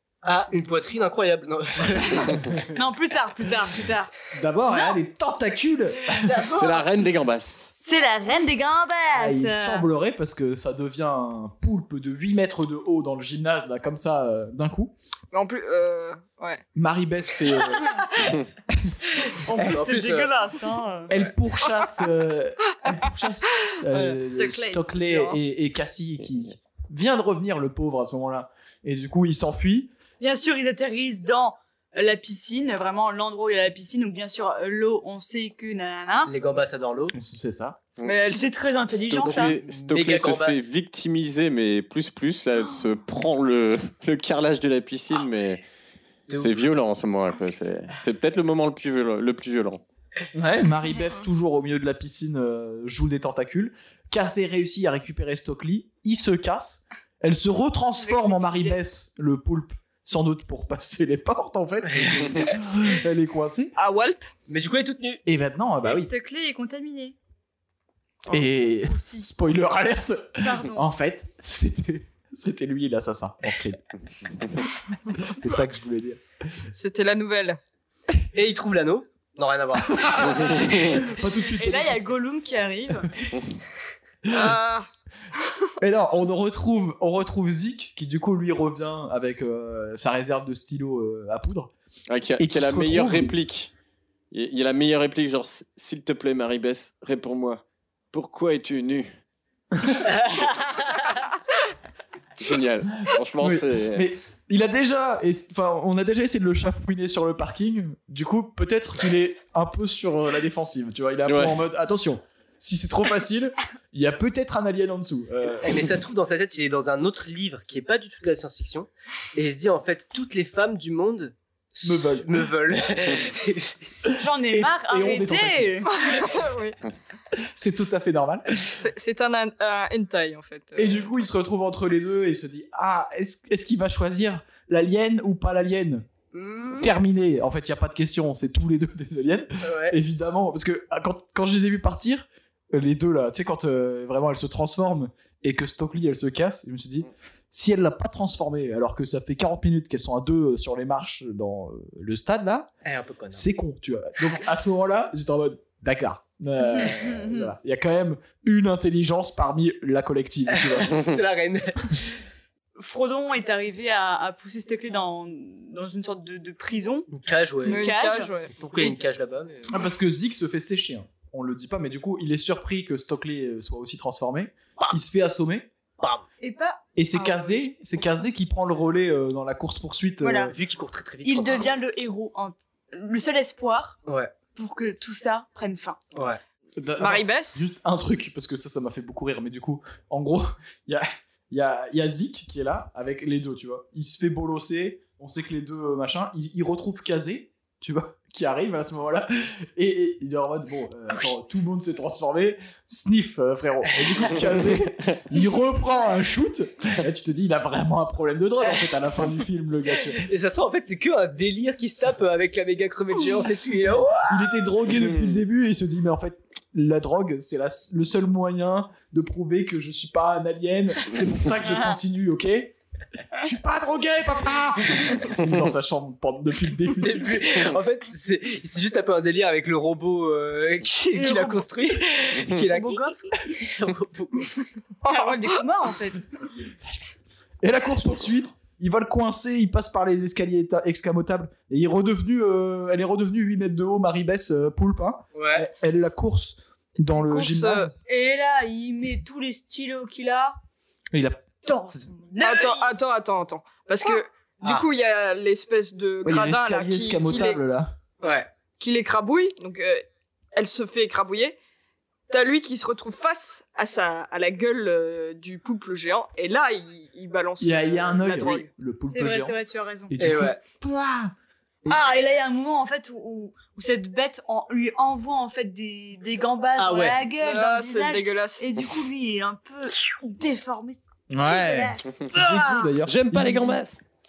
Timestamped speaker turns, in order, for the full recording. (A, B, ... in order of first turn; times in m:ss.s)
0:00.2-0:02.6 A
0:02.7-0:04.1 B
0:04.3-0:06.5 C
0:06.1-0:06.8 A
0:06.4-0:07.7 D
0:07.8-0:09.9 B
0:09.1-0:14.9 C
0:15.3-0:16.6 E
0:16.7-0:18.1 C
0:18.7-0:19.9 C
0:19.5-0:21.2 B
0:19.5-0:20.3 A
0:21.1-0:29.9 C
0:24.0-0:25.4 E
0:30.2-0:36.3 B
0:36.2-0:37.1 A
0:37.1-0:37.8 C
0:38.0-0:38.3 D
0:38.0-0:38.4 E
0:38.2-0:39.6 B
0:39.1-0:45.6 D
0:39.2-0:40.6 A
0:46.3-0:46.6 A
0:46.4-0:49.8 D
0:50.3-1:03.7 C
0:58.1-0:58.7 B
1:01.9-1:02.2 A
1:03.8-1:04.3 E
1:04.5-1:05.2 A
1:05.2-1:06.1 C
1:05.8-1:07.1 B
1:08.3-1:13.8 C
1:08.7-1:09.3 B
1:10.4-1:10.9 B
1:15.1-1:16.2 C
1:16.7-1:17.6 E
1:18.3-1:20.8 A
1:19.9-1:22.0 C
1:21.3-1:23.2 B
1:24.2-1:24.5 C
1:24.3-1:24.9 E
1:25.8-1:31.7 C
1:32.1-1:33.7 D
1:32.4-1:33.3 C
1:34.3-1:39.1 D
1:40.2-1:40.8 A
1:42.4-1:44.1 D
1:43.0-1:56.0 C
1:51.2-1:51.6 D
1:55.6-2:03.8 A
2:01.8-2:02.4 C
2:04.2-2:06.2 B
2:04.5-2:05.9 C
2:05.9-2:06.8 E
2:07.3-2:08.7 C
2:08.7-2:11.1 E
2:10.8-2:16.1 C
2:16.3-2:16.9 A
2:16.8-2:32.7 C
2:19.6-2:20.0 A
2:32.8-2:33.5 A
2:33.3-2:41.0 C
2:36.8-2:37.4 B
2:40.5-2:42.2 A
2:42.8-2:47.1 B
2:47.1-2:47.9 A
2:47.6-2:48.9 B
2:47.6-2:48.5 E
2:48.5-2:49.8 A
2:49.7-2:55.7 C
2:56.0-2:56.2 A
2:56.4-2:57.5 B
2:57.0-3:00.5 C
3:00.2-3:00.5 B
3:00.4-3:01.7 A
3:01.2-3:04.0 B
3:04.0-3:04.3 A
3:04.5-3:06.0 B
3:06.1-3:06.4 A
3:06.8-3:30.2 C
3:07.0-3:07.6 E
3:29.9-3:34.5 A
3:34.2-3:42.8 C
3:43.4-3:47.5 C
3:47.0-3:54.6 A
3:51.1-3:51.6 B
3:52.7-3:53.2 B
3:55.0-3:56.2 B
3:55.0-3:55.4 E
3:57.6-4:07.9 C
4:05.3-4:05.7 A
4:07.1-4:07.9 E
4:08.0-4:10.6 B
4:11.1-4:11.5 C
4:11.6-4:12.9 B
4:12.4-4:17.6 E
4:16.2-4:17.9 C
4:18.2-4:18.5 A
4:18.8-4:20.0 E
4:20.5-4:21.6 E
4:22.3-4:28.7 E
4:27.6-4:29.6 C
4:29.1-4:30.1 B
4:30.1-4:31.3 C
4:30.2-4:30.6 A
4:31.8-4:42.9 B
4:36.8-4:37.3 A
4:37.4-4:38.6 E
4:41.3-4:43.8 C
4:43.0-4:44.0 D